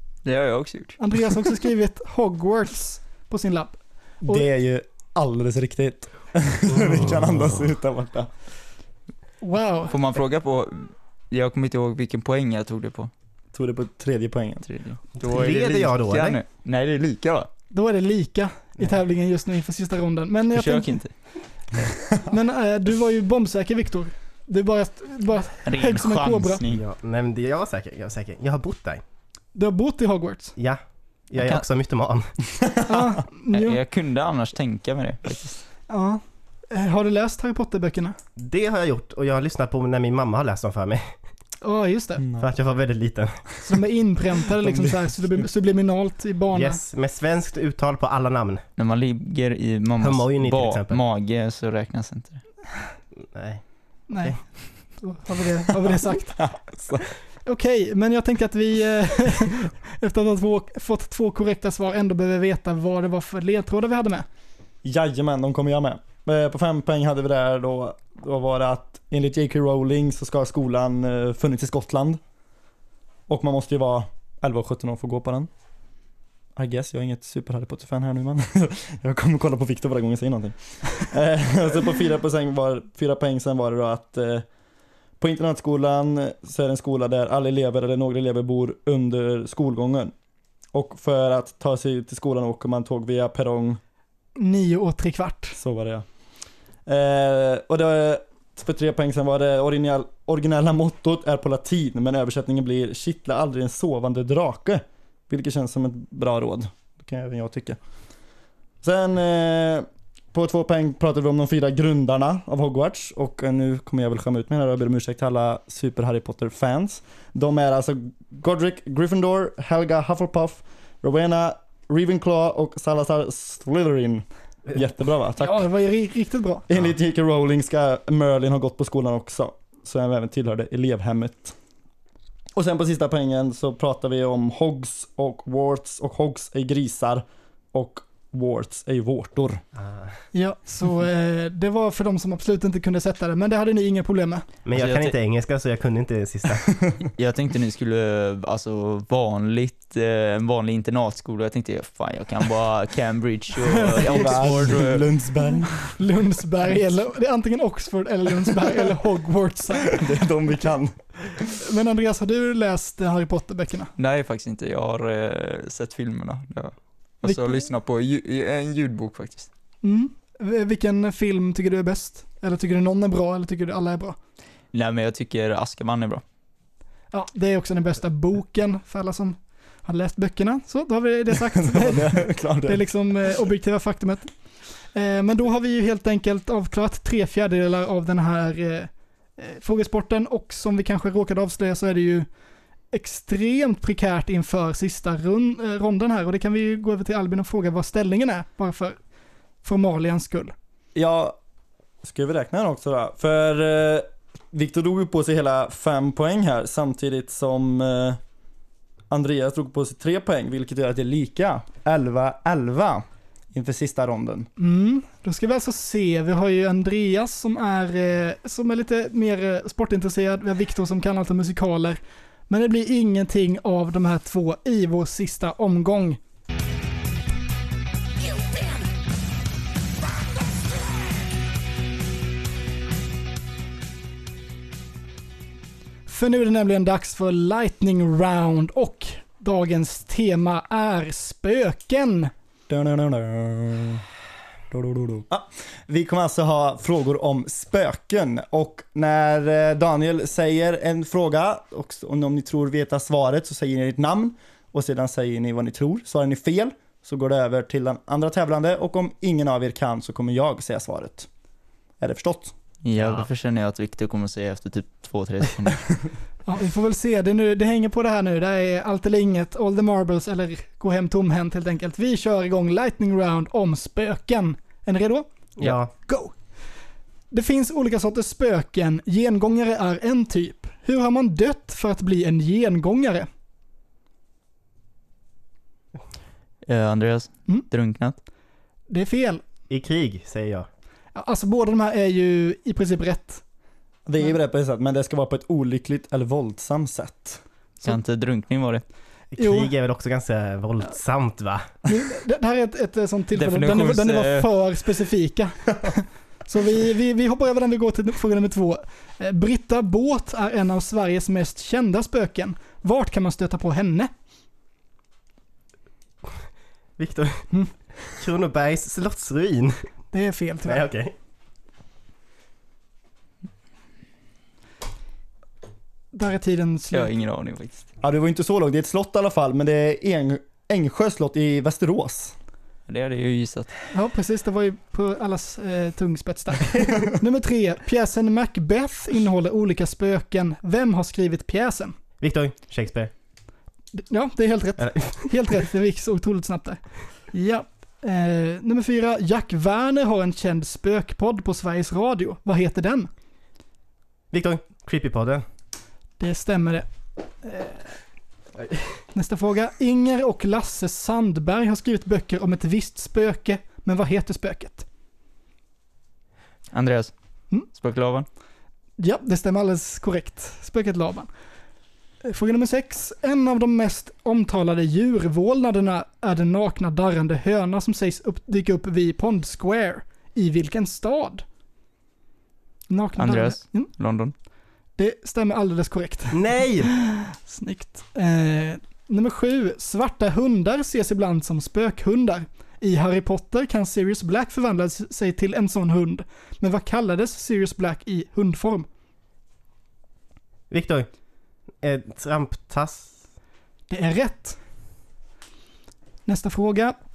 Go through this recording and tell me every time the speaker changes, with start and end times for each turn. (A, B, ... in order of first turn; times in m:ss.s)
0:00.2-0:01.0 A
0:01.0-0:04.4 B
0:04.2-0:08.3 C
0:06.7-0:07.1 D
0:09.4-0:09.9 B
0:09.9-0:13.1 A
0:13.5-0:14.7 C
0:14.7-0:17.5 A
0:15.2-0:16.4 D
0:17.7-0:21.0 B
0:20.5-0:21.1 A
0:22.1-0:26.6 B
0:25.6-0:26.8 A
0:26.7-0:29.0 D
0:29.5-0:30.5 B
0:30.6-0:32.3 D
0:31.4-0:31.6 A
0:32.9-0:33.8 B
0:33.5-0:35.6 A
0:35.9-0:38.2 B
0:38.4-0:41.1 D
0:41.6-0:42.2 B
0:42.2-0:42.5 C
0:42.4-0:43.5 D
0:43.6-0:46.8 B
0:46.5-0:48.6 D
0:48.8-0:52.4 A
0:50.0-0:51.0 D
0:53.2-0:53.6 D
0:54.1-0:54.4 B
0:55.0-0:56.4 B
0:56.4-0:57.0 C
0:57.4-1:04.3 B
1:04.8-1:12.2 C
1:13.3-1:15.5 C
1:16.6-1:24.4 C
1:25.2-1:30.1 C
1:30.7-1:33.8 C
1:34.4-1:35.6 B
1:35.5-1:36.0 C
1:36.8-1:47.8 C
1:48.8-2:05.6 C
2:05.4-2:06.6 B
2:06.7-2:11.6 C
2:12.5-2:19.6 C
2:19.8-2:20.1 D
2:20.3-2:24.4 B
2:24.6-2:26.7 D
2:24.7-2:25.1 A
2:27.2-2:35.0 A
2:33.7-2:34.0 B
2:34.0-2:35.9 C
2:36.0-2:40.2 B
2:39.9-2:41.0 C
2:41.6-2:43.9 B
2:44.0-2:49.5 A
2:47.2-2:47.6 B
2:49.8-2:54.2 B
2:54.7-2:56.2 A
2:57.1-3:04.3 B
3:01.5-3:02.8 C
3:04.9-3:12.3 B
3:12.9-3:19.0 B
3:19.6-3:20.5 B
3:20.9-3:21.4 C
3:22.0-3:28.2 C
3:29.1-3:34.5 C
3:34.6-3:46.2 B
3:56.1-4:02.3 B
4:02.7-4:04.0 C
4:04.7-4:21.3 C
4:22.0-4:22.5 C
4:22.8-4:25.9 A
4:26.4-4:35.3 B
4:35.6-4:35.9 D
4:35.9-4:36.3 B
4:37.3-4:43.3 B
4:46.6-4:48.2 A
4:48.9-4:49.4 B
4:49.7-4:50.7 D
4:51.1-4:53.4 B
4:54.0-4:57.4 C
4:57.8-4:58.8 A
4:59.3-5:01.7 D
4:59.4-4:59.7 B
5:01.9-5:14.1 B
5:03.4-5:04.5 A
5:17.0-5:17.5 D
5:18.1-5:19.8 D
5:20.1-5:20.8 B
5:20.6-5:21.1 D
5:26.1-5:27.1 B
5:26.9-5:27.9 A
5:28.0-5:32.3 C
5:32.9-5:33.7 A
5:33.9-5:41.9 B
5:42.2-5:43.1 D
5:43.9-5:46.8 B
5:44.8-5:45.2 D
5:47.3-5:53.1 B
5:54.3-5:55.4 D
5:56.2-5:56.8 B
5:57.4-5:57.9 B
5:58.6-5:58.9 D
5:59.1-6:04.8 B
6:06.7-6:07.1 A
6:07.7-6:08.3 A
6:09.0-6:11.3 B
6:12.2-6:21.4 B
6:22.9-6:23.9 B
6:23.2-6:24.3 A
6:25.0-6:38.9 B
6:26.3-6:26.9 D
6:40.7-6:41.1 D
6:41.8-6:43.2 D
6:43.9-6:44.6 B
6:46.3-6:47.0 B